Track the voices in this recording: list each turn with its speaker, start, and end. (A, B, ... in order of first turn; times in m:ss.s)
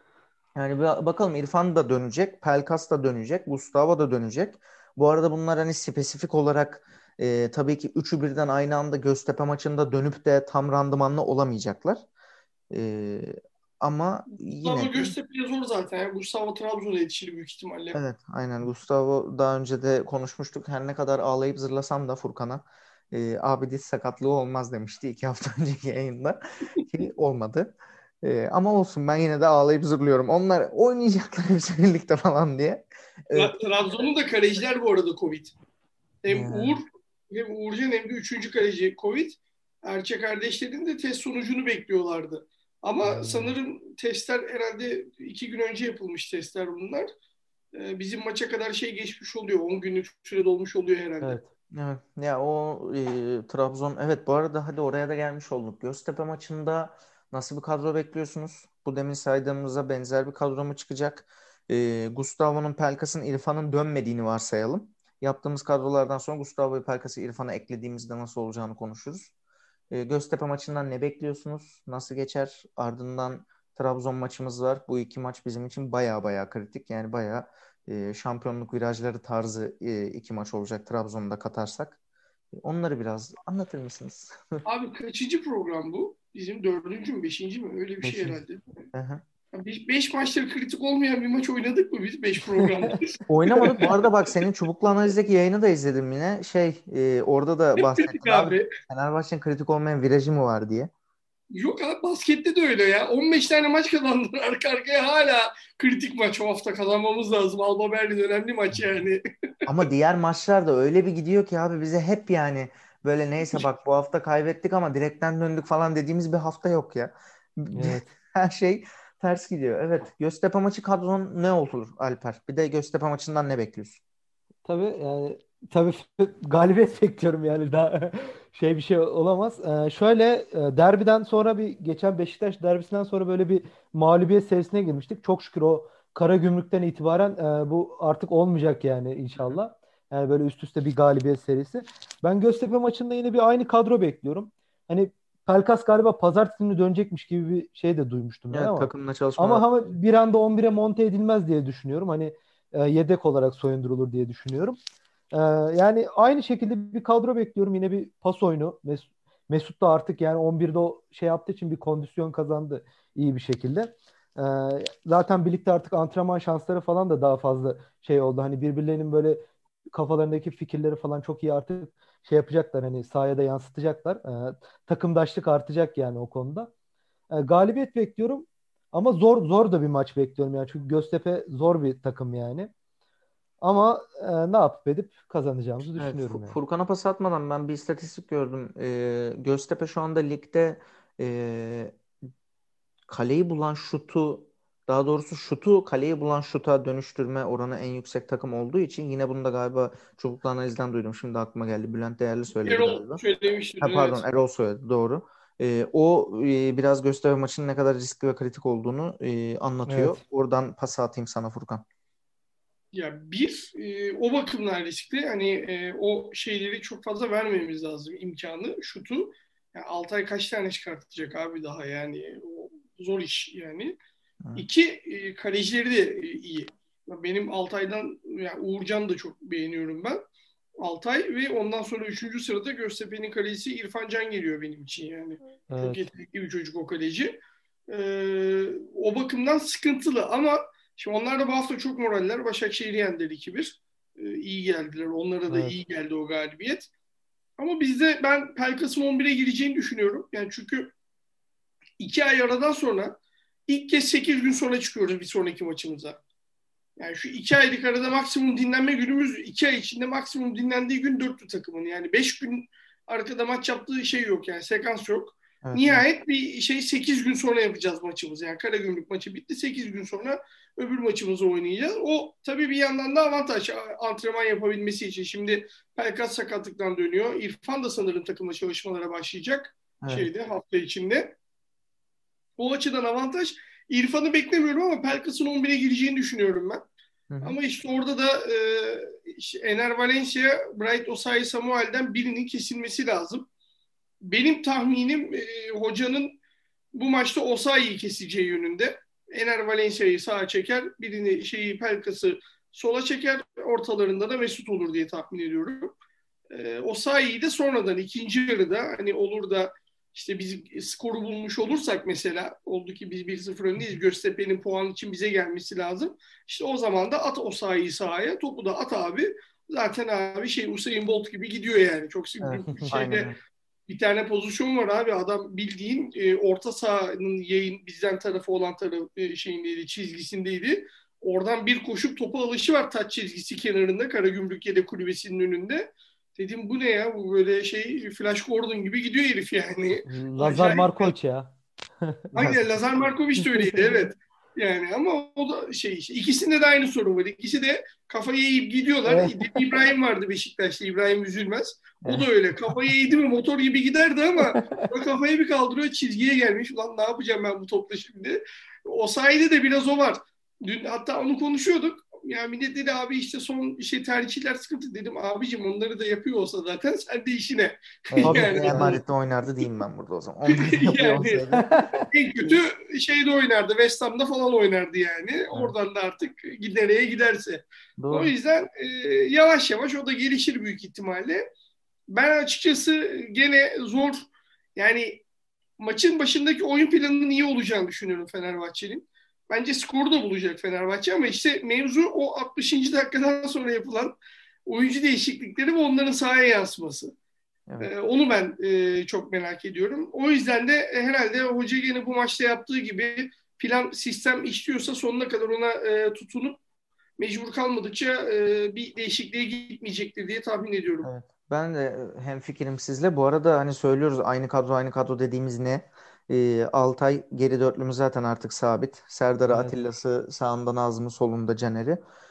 0:00.6-0:12.0 A
0:12.7-0:15.2 A
0:14.6-0:18.0 B
0:18.0-0:33.6 A
0:33.3-0:35.5 B
0:36.2-0:47.1 B
0:36.3-0:36.8 A
0:43.0-0:43.6 C
0:47.7-0:51.4 B
0:51.2-0:51.5 C
0:51.7-1:09.3 A
1:09.9-1:22.0 A
1:22.5-1:24.6 A
1:24.7-1:28.6 B
1:28.0-1:28.4 A
1:28.9-1:29.2 A
1:29.5-1:34.1 B
1:33.3-1:40.9 A
1:37.8-1:38.7 B
1:41.5-1:49.2 B
1:49.7-2:04.0 A
1:57.7-1:58.1 C
2:04.6-2:34.8 C
2:28.5-2:29.6 A
2:35.3-2:56.7 C
2:57.3-3:02.7 C
3:03.6-3:06.6 C
3:06.0-3:12.0 A
3:13.1-3:23.2 A
3:22.6-3:24.2 B
3:23.8-3:31.8 A
3:29.9-3:30.2 C
3:32.9-3:44.0 B
3:44.6-3:50.2 B
3:50.8-3:57.4 B
3:55.7-3:56.1 C
3:57.9-4:06.9 B
4:05.5-4:05.8 C
4:07.6-4:10.9 B
4:12.0-4:13.1 B
4:13.7-4:16.2 B
4:17.0-4:41.3 B
4:25.6-4:26.0 A
4:40.0-4:40.3 A
4:42.6-4:46.8 B
4:47.3-4:47.6 A
4:47.4-4:53.5 B
4:54.2-4:56.4 B
4:56.9-5:06.0 B
5:06.5-5:23.3 B
5:22.4-5:23.4 A
5:22.7-5:23.0 C
5:23.9-5:41.1 B
5:40.1-5:44.1 C
5:42.4-6:09.0 B
5:49.1-5:49.7 C
5:54.4-5:54.9 C
6:08.1-6:11.7 A
6:08.2-6:09.0 C
6:10.5-6:11.4 B
6:11.6-6:12.1 C
6:12.1-6:21.4 B
6:18.0-6:18.3 A
6:22.1-6:25.2 B
6:25.8-6:34.2 B
6:34.7-6:37.2 B
6:37.8-6:46.6 B
6:47.2-6:51.1 B
6:51.0-7:02.0 A
6:59.5-6:59.8 C